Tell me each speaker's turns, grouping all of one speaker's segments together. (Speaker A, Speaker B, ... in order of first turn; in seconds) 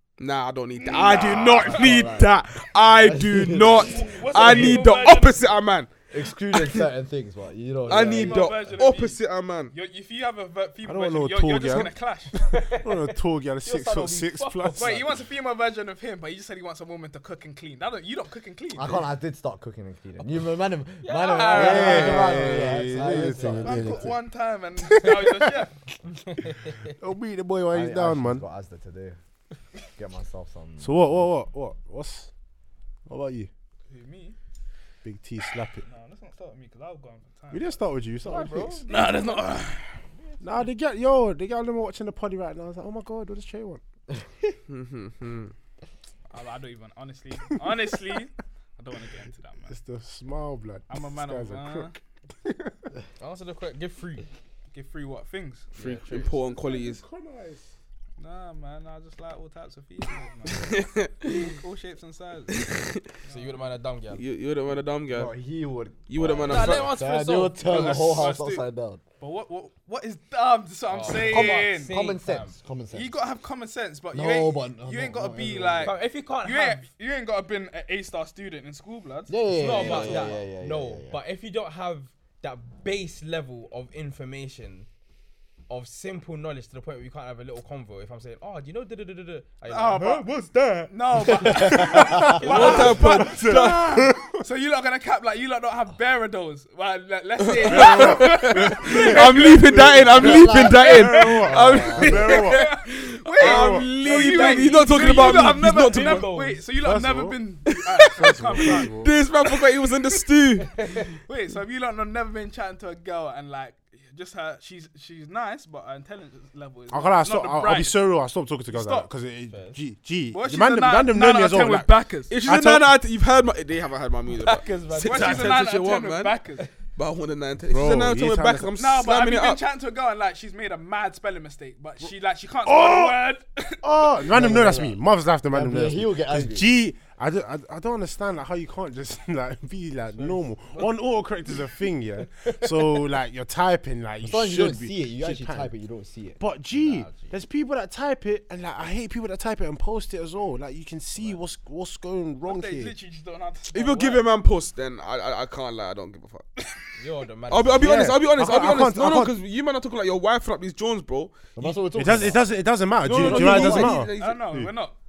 Speaker A: 0.2-6.8, 7.9-9.7, 44.7-45.5, 55.7-57.0, 60.5-61.5, 62.5-63.0, 64.1-65.3, 66.1-66.9, 92.4-93.9, 97.4-106.3, 107.7-110.8, 122.3-126.4, 126.9-129.6, 153.7-156.4, 157.5-161.7, 163.0-164.5
Speaker B: 0.8-2.0, 3.8-5.5, 7.9-9.2, 9.7-12.4, 14.8-19.1, 21.7-22.0, 23.6-25.8, 33.9-34.4, 35.8-37.8, 38.8-39.9, 46.3-49.8, 50.9-52.0, 54.7-55.7, 58.2-62.7, 63.2-63.6, 66.5-66.9, 67.6-68.7, 69.2-72.0, 72.9-80.4, 89.7-90.3, 90.9-101.3, 102.1-108.9, 111.2-118.0, 118.7-119.1, 120.3-122.3, 124.9-126.7, 128.8-134.2, 152.4-154.2, 163.6-164.9
Speaker C: 1.1-2.3, 2.9-4.8, 6.1-8.8, 18.7-24.1, 27.7-29.2, 29.9-31.2, 65.1-69.0, 71.1-73.2, 74.1-75.9, 79.3-81.2, 91.4-92.4, 100.1-102.4, 134.3-135.0, 135.5-136.7, 144.2-146.4, 161.6-162.4, 163.2-163.9
Speaker D: 10.8-15.0, 21.5-24.2, 24.8-25.6, 27.0-28.4, 30.8-32.3, 33.0-33.5, 35.0-35.8, 37.5-38.9, 40.4-43.8, 49.6-51.9, 52.4-52.8, 56.4-57.7, 92.0-94.4, 97.6-102.7, 103.4-103.9, 106.8-107.4, 108.2-109.1, 116.9-121.9, 122.5-122.9, 127.7-128.7, 132.6-133.2, 133.8-145.7, 146.4-152.9, 157.8-159.3, 161.9-164.7
Speaker E: 12.5-15.0, 21.0-23.5, 26.3-26.9, 38.2-39.5, 53.2-54.3, 55.7-56.4, 63.3-64.2, 66.4-68.0, 70.9-72.6, 75.8-76.9, 79.5-84.9, 85.7-93.0, 104.0-106.6, 110.8-111.1, 119.5-119.8, 124.4-125.5, 140.1-140.9, 142.2-143.0, 146.7-147.3, 157.0-158.1